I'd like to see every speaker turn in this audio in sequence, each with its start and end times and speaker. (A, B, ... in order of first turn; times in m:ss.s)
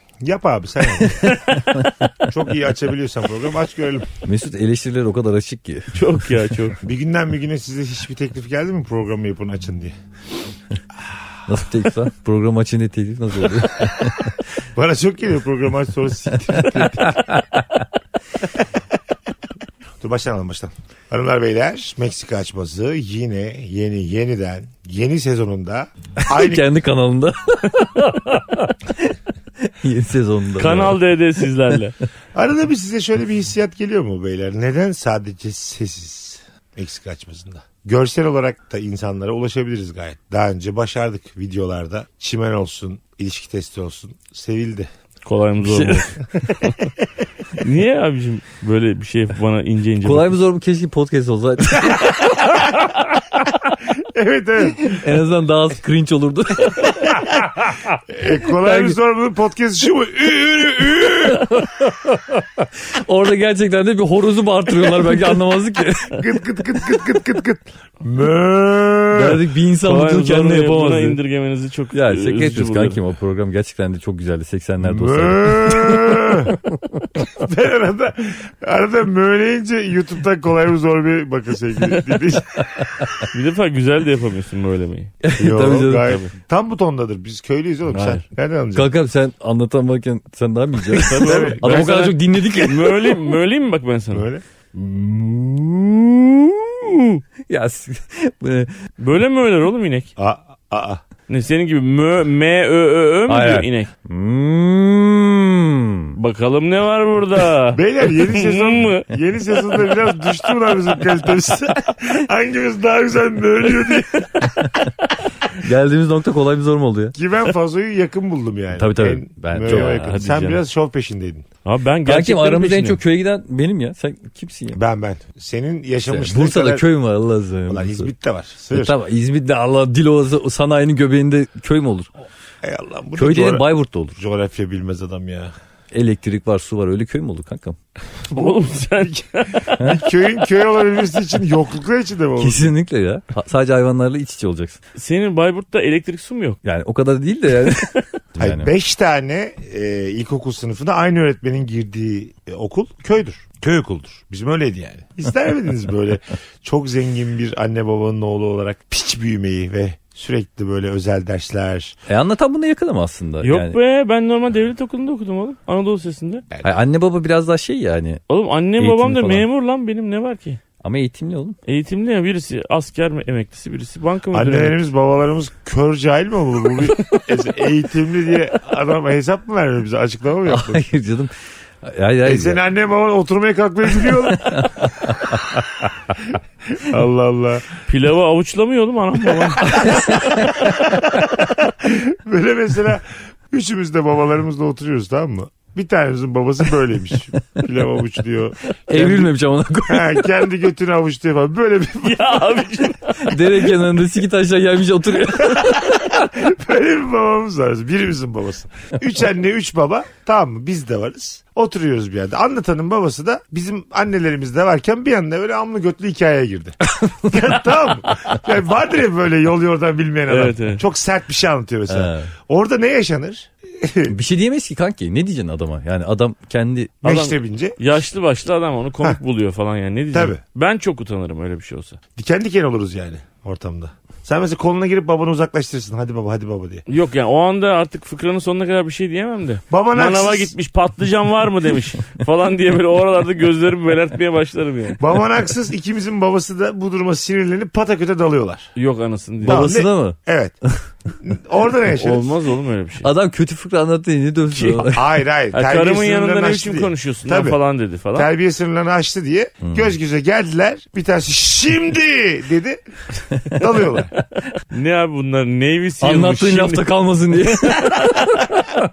0:00.2-0:01.4 A
0:01.0-0:01.9 B
0:01.6-0:01.9 C
0:02.2-0:04.1 A
0:04.2-0:06.0 C
0:05.9-0:06.8 B
0:06.8-0:09.9 A
0:11.5-0:14.4 C
0:14.8-0:17.2 A
0:16.5-0:17.9 C
0:20.0-0:26.6 A
0:26.2-0:31.0 C
0:30.6-0:32.0 B
0:32.4-0:44.9 A
0:45.2-0:46.2 B
0:45.6-0:46.1 C
0:47.6-0:50.3 B
0:50.0-0:52.2 C
0:51.9-0:52.6 A
0:53.8-0:55.0 A
0:54.8-0:57.3 C
0:57.0-1:01.7 A
0:58.3-0:59.0 C
1:01.4-1:06.4 C
1:06.1-1:09.4 A
1:09.1-1:11.2 C
1:09.8-1:13.0 B
1:11.9-1:17.0 C
1:14.8-1:16.6 A
1:17.3-1:23.1 A
1:21.9-1:22.2 B
1:22.7-1:23.3 C
1:23.3-1:25.2 B
1:25.2-1:26.2 C
1:25.4-1:28.9 A
1:26.0-1:26.3 B
1:27.9-1:28.2 C
1:28.8-1:33.3 C
1:31.0-1:34.3 B
1:31.1-1:31.9 A
1:34.1-1:36.1 A
1:37.5-1:38.7 C
1:39.0-1:40.1 B
1:40.2-1:41.0 A
1:41.3-1:43.9 B
1:43.3-1:46.2 C
1:46.2-1:49.1 B
1:47.7-1:54.9 A
1:54.4-1:54.9 C
1:55.5-1:57.2 C
1:57.2-2:01.5 A
1:58.8-2:00.6 C
1:59.6-2:00.6 B
2:01.6-2:03.0 B
2:02.0-2:04.8 C
2:04.8-2:06.9 A
2:06.1-2:08.1 C
2:07.7-2:09.0 A
2:08.7-2:12.1 C
2:12.6-2:15.5 A
2:13.2-2:14.2 C
2:15.9-2:17.8 C
2:18.3-2:19.2 A
2:18.3-2:20.2 B
2:19.8-2:22.7 A
2:22.4-2:24.8 C
2:25.0-2:26.6 B
2:26.6-2:28.7 C
2:27.7-2:28.0 B
2:28.4-2:42.0 A
2:42.1-2:43.8 C
2:43.4-2:46.5 B
2:46.6-2:48.2 C
2:48.3-2:50.6 B
2:48.8-2:49.5 C
2:50.8-2:51.6 C
2:51.7-2:54.8 B
2:54.3-3:00.9 A
3:00.5-3:02.6 C
3:02.2-3:05.6 A
3:04.4-3:05.6 C
3:06.2-3:07.7 A
3:07.9-3:10.5 B
3:09.7-3:11.0 C
3:09.8-3:19.3 A
3:18.9-3:20.3 C
3:19.9-3:22.9 A
3:22.0-3:23.7 B
3:23.2-3:26.1 C
3:25.4-3:44.1 A
3:37.0-3:37.4 C
3:40.3-3:40.8 B
3:41.9-3:42.3 C
3:44.1-3:47.3 C
3:47.0-3:47.8 A
3:47.8-3:52.0 B
3:50.1-3:50.4 A
3:52.2-3:56.8 A
3:56.9-4:05.0 B
3:59.7-4:00.5 A
4:05.0-4:08.7 A
4:08.8-4:09.7 B
4:09.4-4:10.2 C
4:09.4-4:10.6 A
4:11.2-4:12.3 A
4:11.9-4:13.1 B
4:13.0-4:15.0 C
4:14.6-4:14.9 B
4:14.9-4:17.6 A
4:15.5-4:18.3 B
4:18.1-4:22.8 A
4:19.6-4:19.9 C
4:23.3-4:23.6 C
4:23.5-4:24.1 A
4:24.7-4:28.3 B
4:26.0-4:28.8 C